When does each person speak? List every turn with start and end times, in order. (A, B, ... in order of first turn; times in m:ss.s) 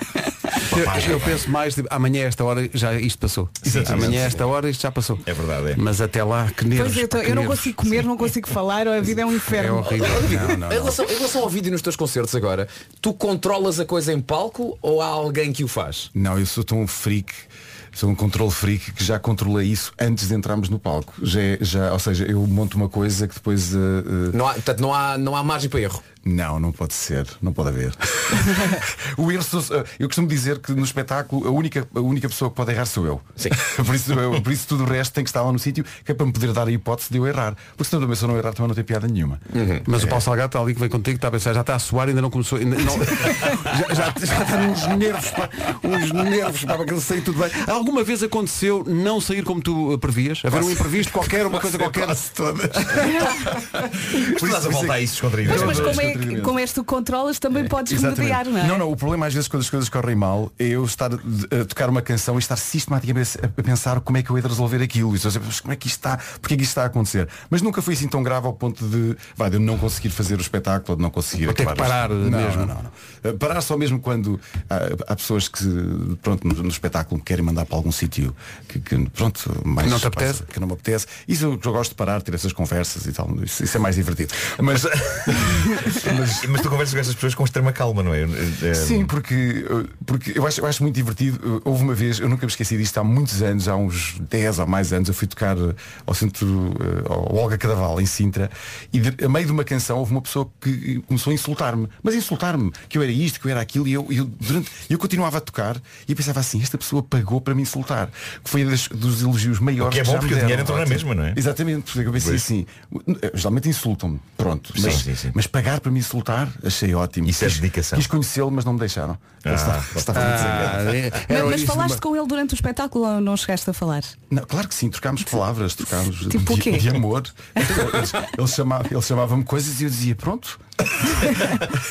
0:00.7-0:01.4 A
0:00.7-0:05.2 B
0:03.6-0:04.5 A
0:05.2-0:05.8 A
0:05.8-0:08.0 B
0:06.7-0:10.2 C
0:09.5-0:10.9 B
0:10.0-0:16.1 D
0:16.1-0:24.4 E
0:24.3-0:26.0 D
0:26.2-0:39.4 E
0:39.5-0:39.9 D
0:39.9-0:52.3 B
0:43.1-0:43.5 E
0:50.6-0:53.6 E
0:54.1-0:56.6 E
0:54.2-0:56.1 A
0:55.5-0:58.8 C
0:57.8-1:26.5 E
1:11.4-1:12.7 B
1:19.8-1:20.5 B
1:24.6-1:29.1 A
1:28.8-2:00.9 E
1:49.8-1:51.4 A
1:52.2-1:52.4 A
1:54.7-1:55.4 A
1:57.2-1:58.1 A
1:59.4-2:01.2 A
2:00.2-2:02.0 B
2:01.3-2:04.2 C
2:04.3-2:10.6 E
2:06.3-2:07.0 C
2:11.4-2:11.6 A